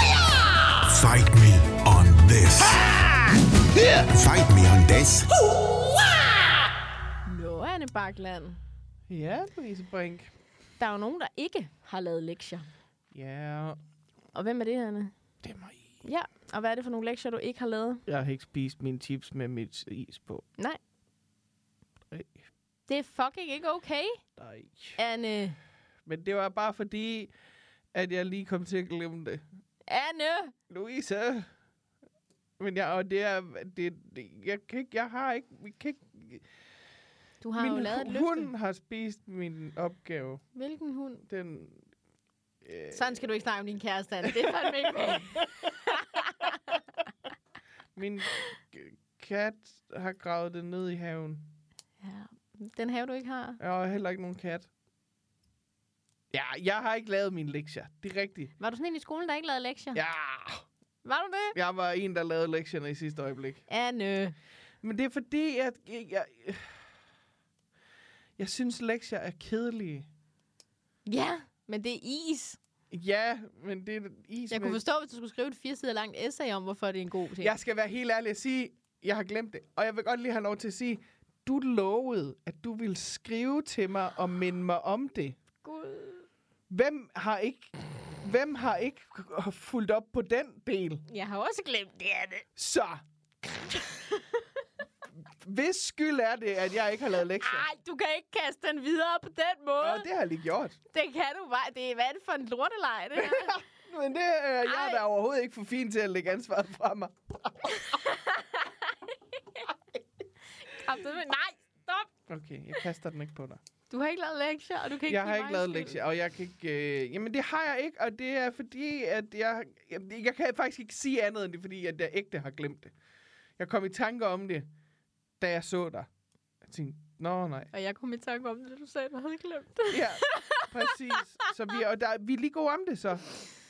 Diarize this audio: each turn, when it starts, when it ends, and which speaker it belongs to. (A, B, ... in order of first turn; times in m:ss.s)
0:00.8-0:02.9 A
0:03.7-0:04.0 B
0:03.8-0:05.3 A
0:07.2-0:08.6 C
0:09.1-0:10.3 B
0:10.8-0:12.7 C
0:13.1-0:13.8 B
0:14.3-0:15.1 C
0:15.4-0:16.0 B
0:16.0-0:18.0 C
0:18.1-0:20.4 B
0:22.1-0:22.4 B
0:22.9-0:24.2 C
0:24.4-0:25.0 B
0:25.0-0:25.6 C
0:26.0-0:27.3 B
0:27.9-0:29.4 B
0:29.9-0:30.5 C
0:30.7-0:31.5 B
0:32.6-0:36.4 B
0:37.4-0:38.5 C
0:37.6-0:40.4 B
0:40.5-0:41.2 C
0:41.3-0:41.8 B
0:42.6-0:43.2 B
0:42.9-0:46.6 C
0:44.4-0:45.5 B
0:47.9-0:51.4 B
0:52.0-0:53.6 C
0:53.6-0:54.7 B
0:56.3-0:58.5 B
0:58.6-1:00.0 C
0:59.9-1:00.6 B
1:01.0-1:01.6 C
1:01.5-1:03.6 B
1:03.7-1:04.3 C
1:04.8-1:06.8 B
1:08.4-1:10.1 B
1:11.0-1:12.6 C
1:12.9-1:14.8 B
1:14.5-1:17.5 C
1:17.4-1:25.4 B
1:25.6-1:26.3 C
1:26.7-1:31.0 B
1:31.1-1:32.5 C
1:32.6-1:33.0 B
1:33.5-1:34.5 C
1:35.3-1:37.6 B
1:37.4-1:40.0 C
1:39.8-1:40.8 B
1:40.9-1:43.6 C
1:43.2-1:47.9 B
1:44.6-1:45.0 C
1:47.7-1:49.7 C
1:50.6-1:52.1 C
1:52.3-1:53.6 B
1:53.9-1:56.0 C
1:55.1-2:02.9 B
2:03.6-2:04.7 B
2:05.4-2:06.1 B
2:06.6-2:07.7 B
2:07.7-2:10.9 C
2:09.9-2:13.3 B